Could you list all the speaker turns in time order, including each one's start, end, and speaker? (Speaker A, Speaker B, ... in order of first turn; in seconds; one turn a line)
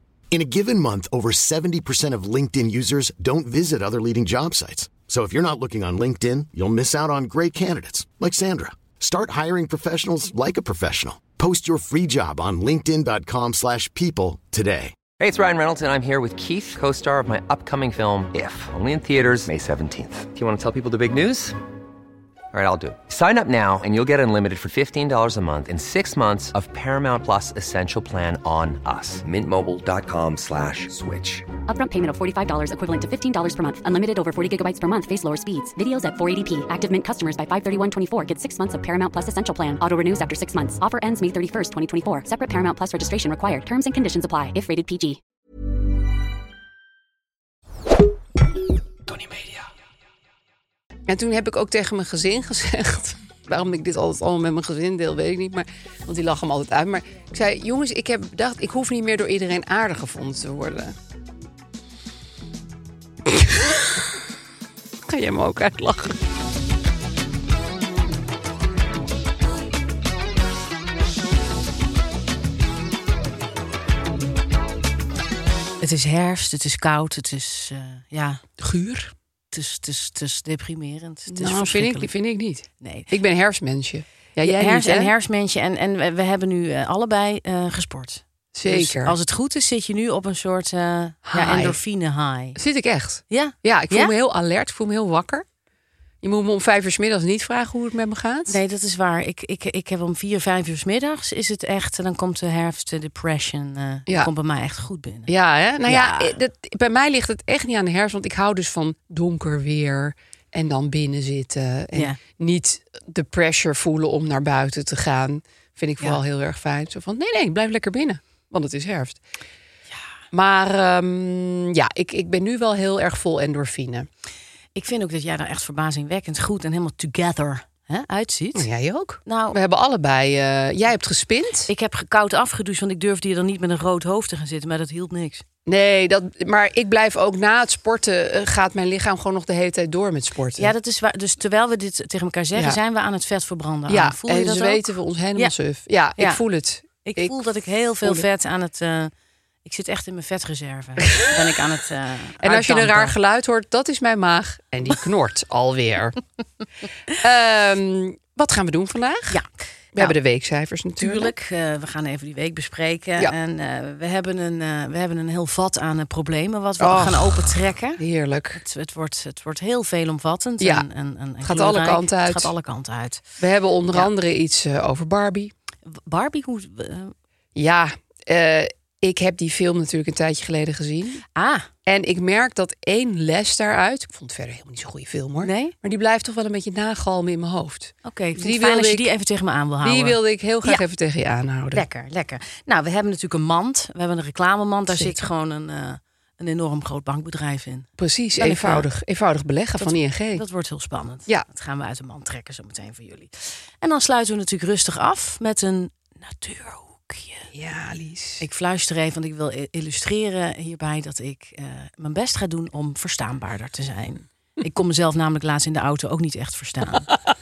Speaker A: 0.3-15.0
Speaker B: 15.2-21.6
Speaker B: 22.5-31.4
Speaker C: 31.7-45.2
Speaker D: 51.1-60.9
Speaker D: 63.2-64.0
Speaker D: 65.0-66.2
Speaker E: 75.8-78.4
Speaker D: 78.6-79.1
Speaker E: 79.5-82.1
Speaker D: 81.3-85.1
Speaker E: 82.8-83.1
Speaker E: 84.4-92.6
Speaker D: 88.5-89.2
Speaker D: 91.3-91.8
Speaker D: 92.5-95.4
Speaker E: 93.3-94.1
Speaker D: 96.2-98.6
Speaker E: 98.5-105.3
Speaker D: 105.3-119.2
Speaker E: 105.8-106.4
Speaker E: 111.9-112.2
Speaker D: 120.3-124.1
Speaker E: 124.8-128.7
Speaker D: 128.5-131.7
Speaker E: 129.2-129.6
Speaker E: 131.7-135.4
Speaker D: 135.7-140.7
Speaker E: 140.6-144.8
Speaker D: 142.5-142.8
Speaker D: 143.9-147.4
Speaker E: 147.0-149.1
Speaker E: 149.6-153.2
Speaker D: 152.4-156.2
Speaker D: 157.1-159.4
Speaker E: 159.3-160.1
Speaker D: 159.9-161.3
Speaker E: 161.0-168.0
Speaker D: 166.8-168.6
Speaker E: 168.5-173.2
Speaker D: 170.6-170.9
Speaker D: 171.4-172.5
Speaker D: 173.4-175.5
Speaker E: 175.9-177.1
Speaker D: 177.5-181.2
Speaker E: 181.3-181.7
Speaker D: 181.8-189.1
Speaker E: 185.4-185.7
Speaker E: 188.0-190.8
Speaker D: 189.8-191.8
Speaker E: 191.7-198.9
Speaker D: 194.9-195.1
Speaker D: 198.0-200.4
Speaker E: 199.8-207.5
Speaker D: 207.5-208.4
Speaker E: 208.4-217.1